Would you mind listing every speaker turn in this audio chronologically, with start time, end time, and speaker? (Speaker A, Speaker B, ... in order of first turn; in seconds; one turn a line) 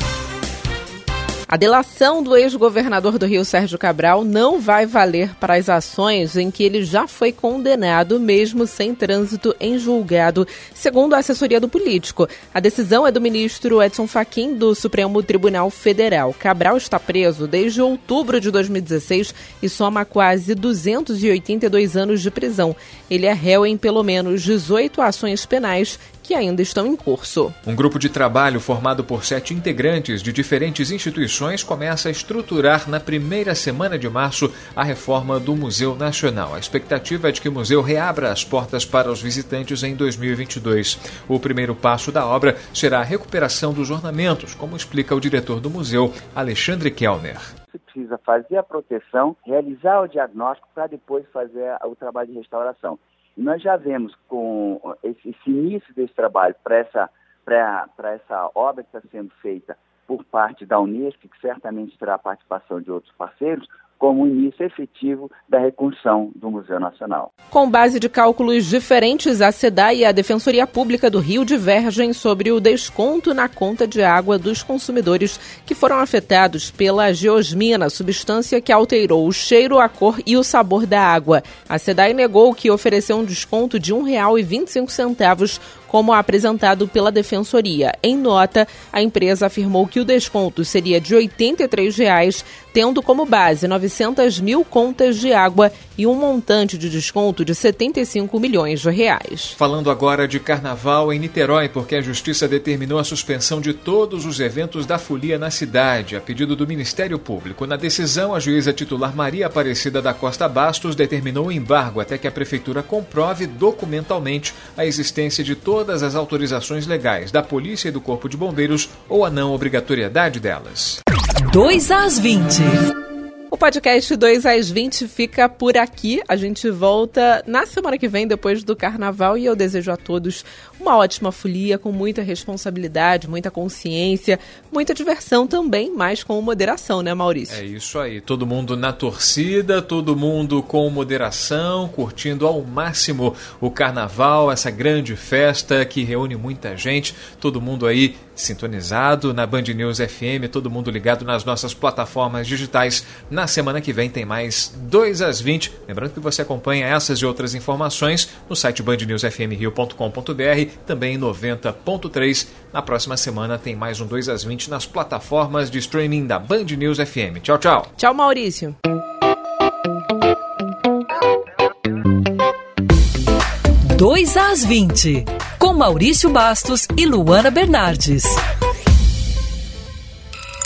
Speaker A: 1.5-27.6
Speaker B: 27.6-47.5
Speaker C: 47.7-67.3
Speaker A: 67.5-99.6
Speaker B: 99.6-121.0
Speaker D: 121.5-122.8
Speaker A: 123.5-137.6
Speaker B: 137.5-167.9
Speaker A: 168.0-168.8
Speaker D: 173.9-178.4